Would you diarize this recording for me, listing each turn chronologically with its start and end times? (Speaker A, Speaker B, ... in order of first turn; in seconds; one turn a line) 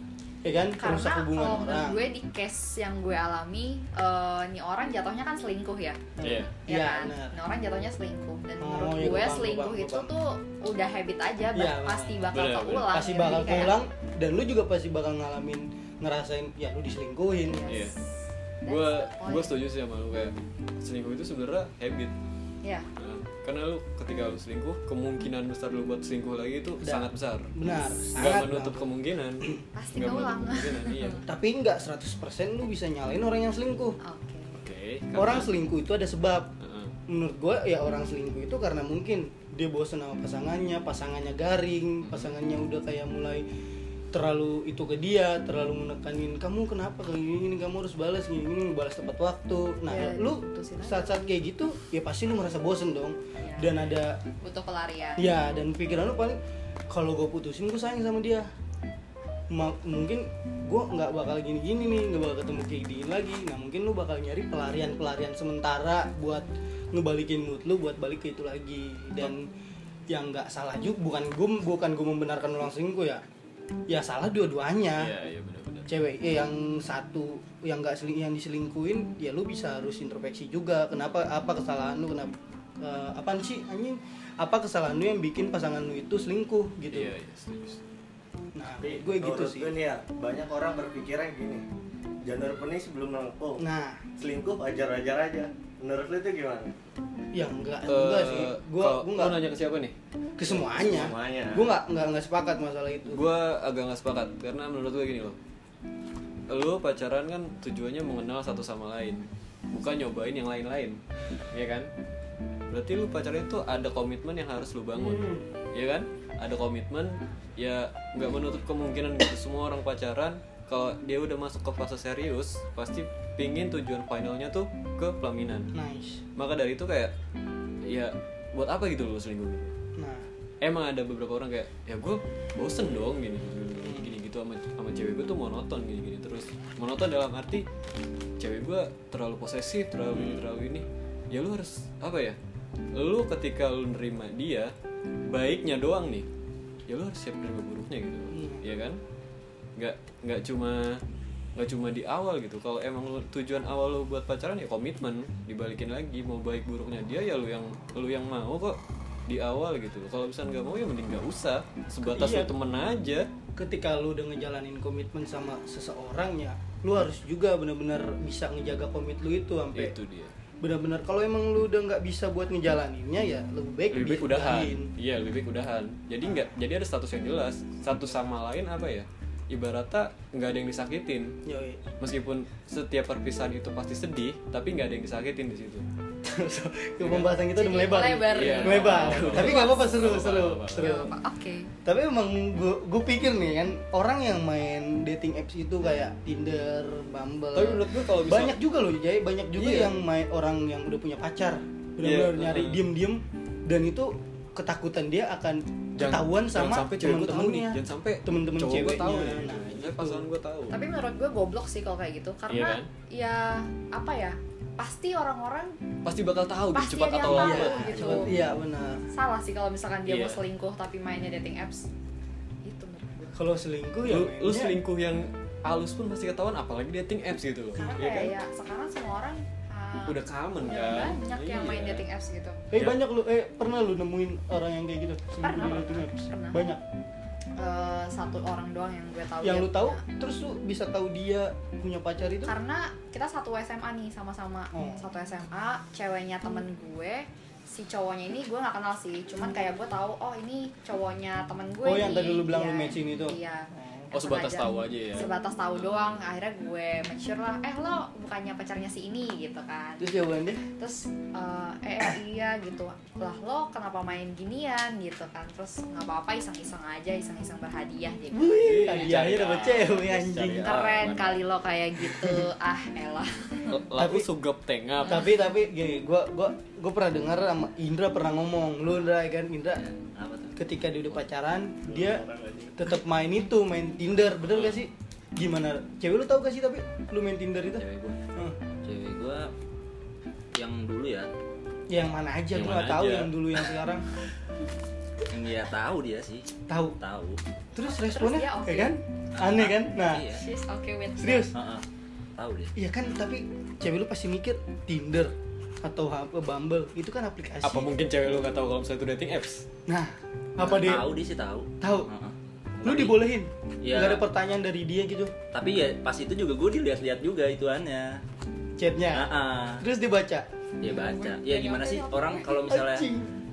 Speaker A: 0.4-2.0
Speaker B: 0.8-6.0
Speaker A: 6.2-7.4
Speaker C: 6.2-6.5
Speaker B: 6.7-13.8
Speaker A: 8.6-10.1
Speaker A: 11.5-12.3
Speaker C: 12.3-12.9
Speaker A: 12.9-17.7
Speaker B: 17.4-18.1
Speaker C: 17.7-17.9
Speaker B: 18.6-19.6
Speaker C: 18.6-22.1
Speaker C: 23.0-27.5
Speaker A: 26.8-28.9
Speaker C: 28.1-31.2
Speaker B: 29.8-31.2
Speaker A: 31.3-34.0
Speaker B: 34.0-34.6
Speaker C: 34.6-35.5
Speaker A: 35.1-36.5
Speaker C: 36.6-36.9
Speaker A: 37.1-43.5
Speaker C: 42.0-42.3
Speaker A: 44.1-54.2
Speaker B: 49.9-51.3
Speaker B: 53.4-55.3
Speaker A: 55.2-58.5
Speaker A: 59.5-69.5
Speaker A: 70.1-73.2
Speaker A: 73.9-75.1
Speaker C: 75.0-75.9
Speaker A: 75.9-87.1
Speaker C: 86.9-87.8
Speaker A: 88.5-89.7
Speaker D: 88.8-91.6
Speaker D: 92.2-93.6
Speaker A: 93.6-94.0
Speaker D: 94.2-96.7
Speaker A: 97.3-99.4
Speaker C: 97.9-100.0
Speaker A: 100.4-103.2
Speaker D: 100.9-101.7
Speaker C: 103.1-105.4
Speaker C: 106.5-111.0
Speaker C: 111.5-111.9
Speaker C: 112.7-125.7
Speaker A: 115.0-115.4
Speaker A: 125.7-126.2
Speaker C: 126.4-127.1
Speaker C: 127.8-129.7
Speaker A: 130.0-130.3
Speaker C: 130.6-137.7
Speaker A: 133.8-134.2
Speaker C: 138.4-142.4
Speaker A: 140.1-140.4
Speaker C: 142.9-144.7
Speaker C: 145.3-146.3
Speaker C: 146.9-149.0
Speaker A: 148.3-148.6
Speaker C: 149.8-151.0
Speaker C: 151.6-163.3
Speaker A: 162.0-162.5
Speaker A: 163.6-169.9
Speaker C: 169.8-170.3
Speaker A: 170.6-174.9
Speaker C: 173.9-181.4
Speaker A: 181.4-181.8
Speaker C: 182.0-185.9
Speaker A: 186.2-191.1
Speaker C: 187.0-187.3
Speaker B: 187.5-190.0
Speaker C: 188.3-190.9
Speaker B: 190.8-191.7
Speaker A: 191.8-210.3
Speaker C: 197.5-198.6
Speaker C: 199.6-199.9
Speaker C: 202.0-202.8
Speaker C: 206.0-210.8
Speaker B: 210.7-215.8
Speaker C: 212.5-212.9
Speaker C: 216.1-218.4
Speaker B: 216.7-218.3
Speaker A: 217.2-219.0
Speaker B: 219.1-221.9
Speaker C: 220.1-220.4
Speaker B: 222.7-223.4
Speaker A: 223.3-224.8
Speaker C: 224.1-228.3
Speaker A: 227.8-228.3
Speaker B: 227.8-232.6
Speaker C: 230.1-232.0
Speaker A: 232.7-236.8
Speaker C: 232.7-233.0
Speaker B: 235.4-236.7
Speaker B: 237.6-240.0
Speaker A: 239.4-242.5
Speaker B: 242.4-260.1
Speaker A: 244.7-245.0
Speaker A: 251.8-254.1
Speaker C: 254.1-255.3
Speaker A: 260.0-260.6
Speaker B: 260.8-269.1
Speaker A: 268.3-270.7
Speaker C: 268.6-270.1
Speaker E: 269.9-271.5
Speaker B: 270.6-273.8
Speaker A: 272.1-272.4
Speaker C: 273.7-275.3
Speaker A: 274.0-274.3
Speaker A: 275.0-279.8
Speaker B: 275.1-275.5
Speaker E: 279.8-280.6
Speaker A: 280.6-282.2
Speaker D: 281.9-282.8
Speaker A: 282.8-287.8
Speaker E: 287.8-288.2
Speaker E: 288.8-289.5
Speaker E: 290.6-291.3
Speaker A: 291.9-294.1
Speaker C: 292.5-293.3
Speaker E: 295.3-297.4
Speaker A: 296.7-297.0
Speaker B: 297.8-298.9
Speaker A: 297.8-300.3
Speaker E: 299.4-300.4
Speaker B: 300.3-301.5
Speaker A: 301.2-301.5
Speaker E: 301.5-301.9
Speaker E: 302.4-302.7
Speaker A: 302.8-307.9
Speaker C: 307.6-309.7
Speaker A: 309.9-311.1
Speaker E: 310.6-313.2
Speaker A: 311.8-312.1
Speaker A: 312.8-315.3
Speaker E: 313.8-314.2
Speaker E: 315.5-318.2
Speaker A: 318.8-320.5
Speaker E: 319.1-319.8
Speaker E: 320.8-323.1
Speaker B: 320.8-322.6
Speaker A: 322.7-323.3